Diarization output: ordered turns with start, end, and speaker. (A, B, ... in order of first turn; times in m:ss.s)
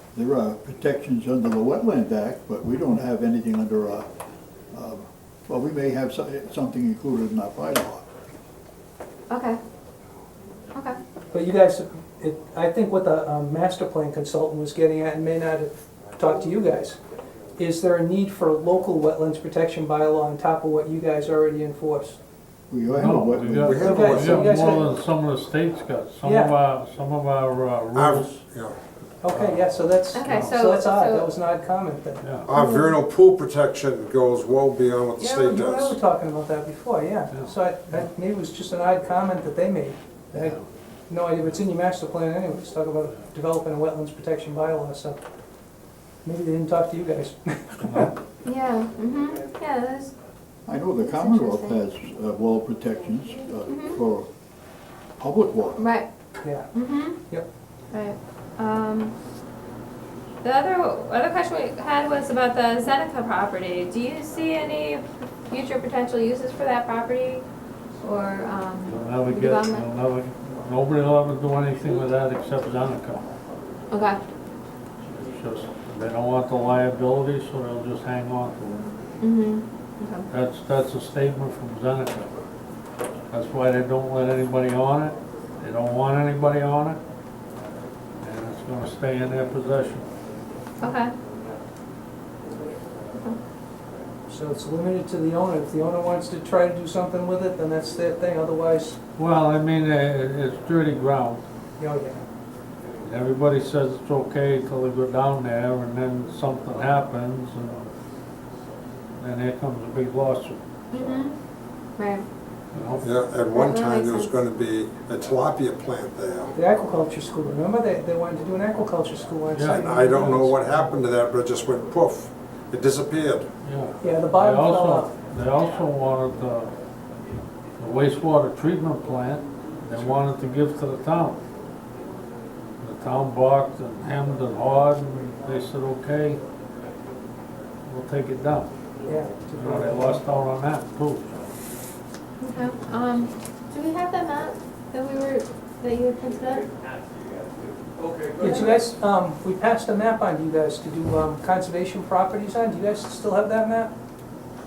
0:00.1-0:04.1 A
0:04.7-0:08.0 A
0:09.3-0:09.6 B
0:11.3-0:17.0 C
0:17.6-0:22.2 C
0:22.7-0:24.0 A
0:22.9-0:28.4 D
0:23.6-0:24.8 E
0:23.8-0:24.9 C
0:26.2-0:26.5 C
0:27.9-0:28.8 E
0:29.2-0:32.2 C
0:29.2-0:29.6 D
0:30.1-0:31.3 B
0:30.2-0:30.6 D
0:32.2-0:32.5 D
0:32.4-0:35.9 E
0:32.6-0:32.9 B
0:35.2-0:40.6 C
0:40.3-0:40.6 D
0:41.1-0:45.2 C
0:46.2-0:48.1 C
0:47.8-0:48.1 D
0:48.4-0:50.1 B
0:50.6-0:54.3 A
0:51.0-0:51.8 B
0:53.7-0:54.0 B
0:55.2-0:55.8 A
0:55.8-0:56.1 B
0:56.4-0:56.7 C
0:56.7-0:57.2 B
0:57.9-0:59.1 B
1:00.4-1:07.4 B
1:08.0-1:09.9 B
1:08.8-1:13.3 D
1:13.9-1:14.2 B
1:15.1-1:18.9 D
1:19.2-1:20.3 B
1:20.3-1:22.4 D
1:23.3-1:27.0 D
1:28.2-1:30.1 D
1:30.8-1:31.1 B
1:34.3-1:39.0 C
1:39.2-1:41.4 D
1:41.8-1:42.3 C
1:43.0-1:47.9 D
1:49.2-1:50.6 D
1:50.9-1:51.3 B
1:52.0-1:52.2 B
1:52.7-1:53.0 D
1:53.0-1:56.5 E
1:53.5-1:54.4 B
1:56.5-2:00.8 C
1:59.5-1:59.8 D
1:59.7-2:03.5 E
2:03.6-2:06.7 D
2:04.0-2:05.1 C
2:07.8-2:11.4 D
2:12.8-2:16.4 D
2:17.8-2:18.7 D
2:19.0-2:20.2 C
2:19.6-2:21.5 D
2:22.4-2:26.7 B
2:28.4-2:33.9 C
2:28.4-2:28.7 B